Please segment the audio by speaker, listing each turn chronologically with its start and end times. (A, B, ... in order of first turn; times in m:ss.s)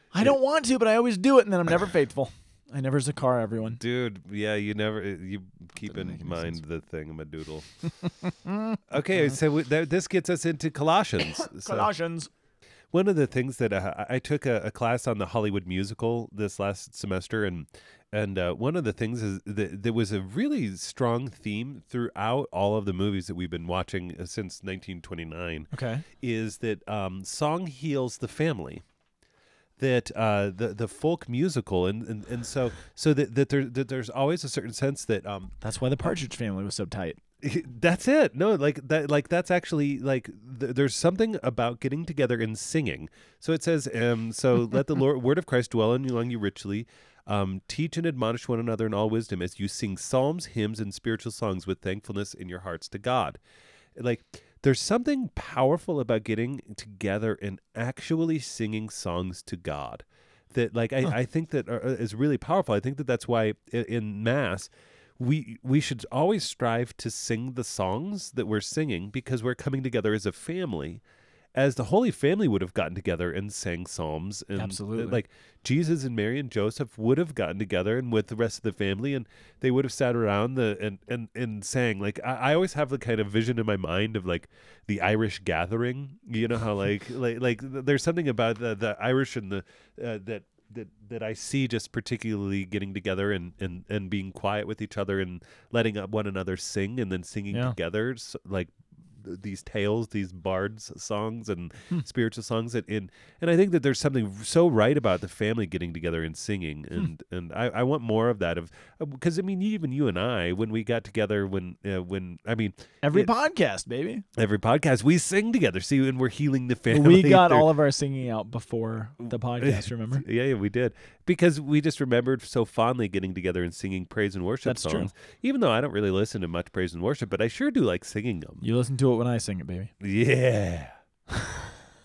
0:00.1-0:03.8 A
0:03.8-0:07.7 B
0:05.9-0:06.6 A
0:08.9-0:11.9 B
0:11.3-0:12.3 A
0:12.9-0:28.8 B
0:25.7-0:26.0 A
0:29.8-0:35.6 B
0:35.6-0:37.2 A
0:37.4-0:53.4 B
0:54.0-1:11.0 B
1:11.6-1:53.3 B
1:14.6-1:15.2 A
1:53.0-1:54.2 A
1:54.4-1:57.7 B
1:56.9-2:00.2 A
1:59.6-2:08.6 B
2:04.6-2:05.1 A
2:08.6-2:09.9 A
2:10.0-2:10.9 B
2:11.3-2:11.8 A